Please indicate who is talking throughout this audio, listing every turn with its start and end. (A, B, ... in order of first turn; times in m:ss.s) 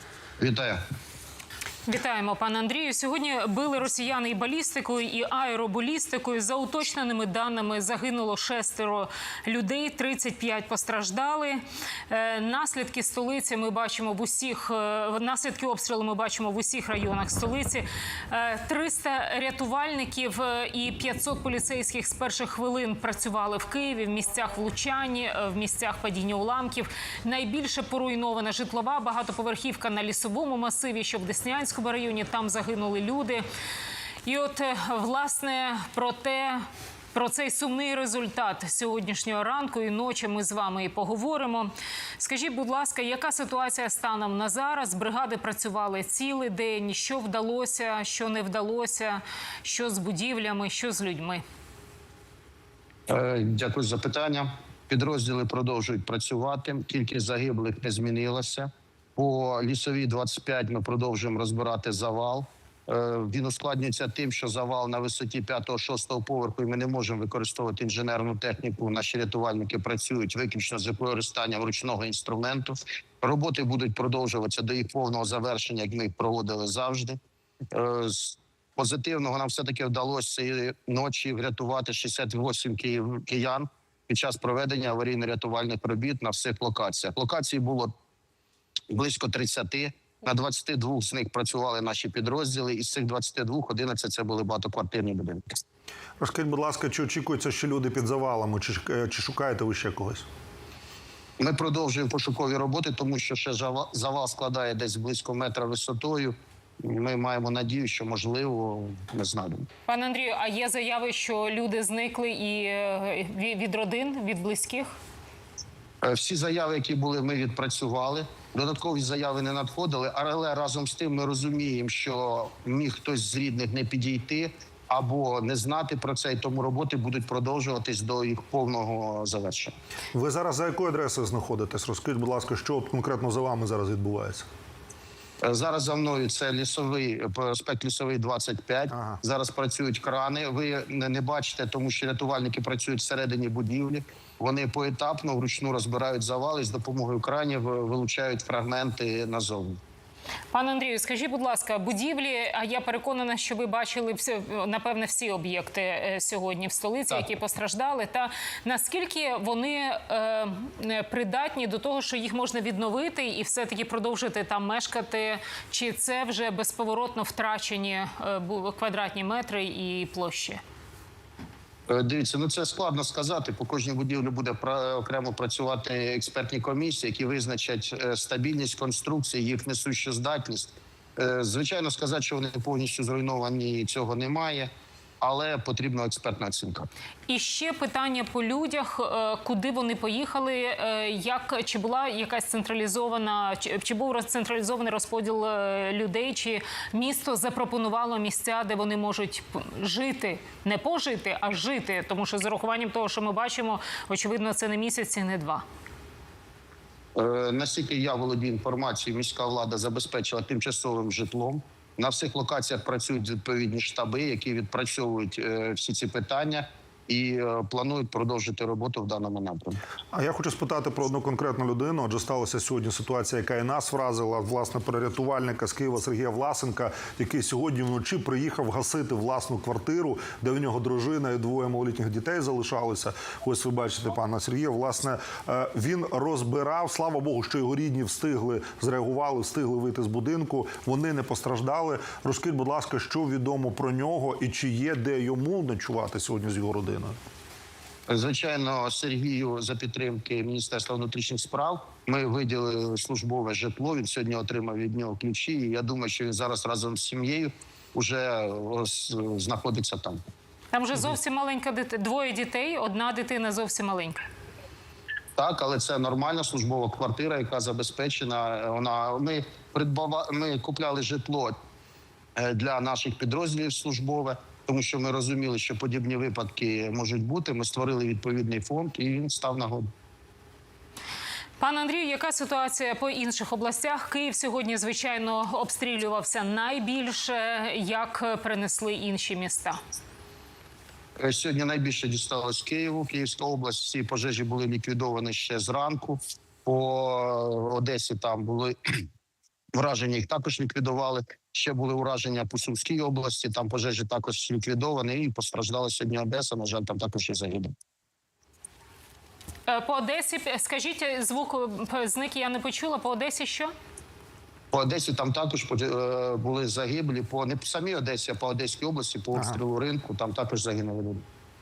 0:00.4-0:00.8 A
0:01.9-0:33.4 B
0:34.2-0:51.4 B
0:53.1-1:17.2 A
1:17.7-1:27.9 A
1:28.9-1:35.6 A
1:36.2-1:40.2 C
1:41.4-1:49.7 A
1:49.9-1:54.9 B
1:56.0-2:09.7 A
2:10.1-2:14.5 C
2:15.4-2:29.8 A
2:18.9-2:19.2 C
2:30.5-2:50.6 B
2:51.9-3:04.7 A
3:05.2-3:06.9 A
3:07.3-3:25.6 B
3:27.2-3:39.8 A
3:40.1-4:07.2 C
4:08.1-4:20.2 A
4:20.7-4:24.2 B
4:25.4-4:31.6 A
4:32.4-4:39.9 A
4:41.6-4:49.8 B
4:51.2-4:58.8 A
4:59.8-5:07.7 A
5:09.7-5:13.7 B
5:14.7-5:21.2 A